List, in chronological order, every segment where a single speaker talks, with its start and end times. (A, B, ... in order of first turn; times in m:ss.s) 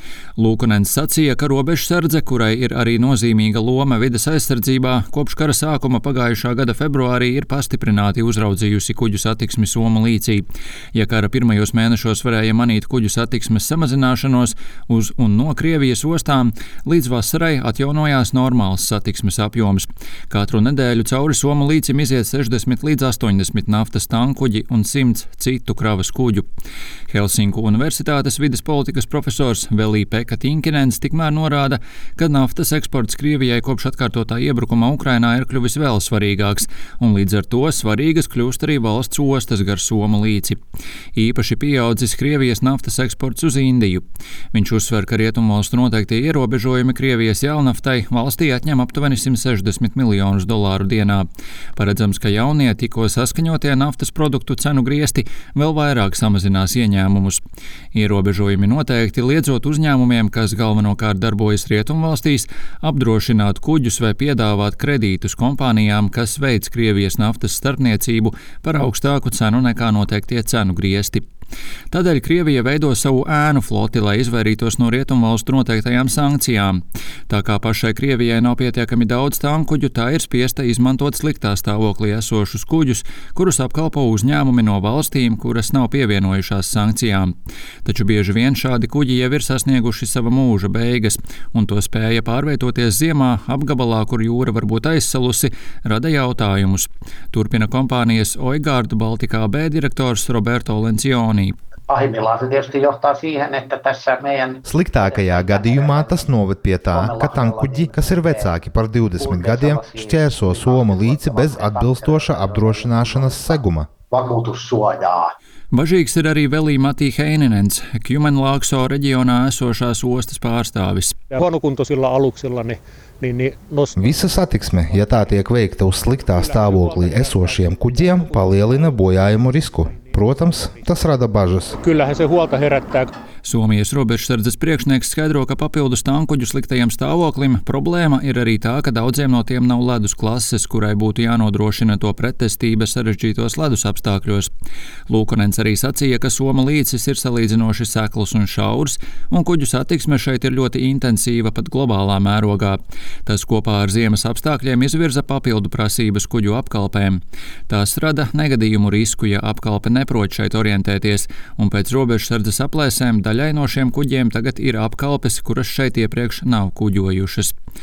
0:00.4-0:26.4 A
0:27.1-0:40.6 A
0:41.1-0:57.4 A
0:57.9-1:11.2 A
1:11.9-1:27.3 A
1:27.8-1:41.5 A
1:41.9-1:46.2 B
1:44.6-1:53.9 C
1:46.9-1:48.5 B
1:49.2-1:55.3 B
1:55.7-2:01.2 A
2:01.3-2:04.3 D
2:04.0-2:11.8 C
2:04.9-2:05.2 D
2:06.3-2:10.8 D
2:11.7-2:13.1 D
2:13.4-2:24.5 A
2:25.1-2:47.5 A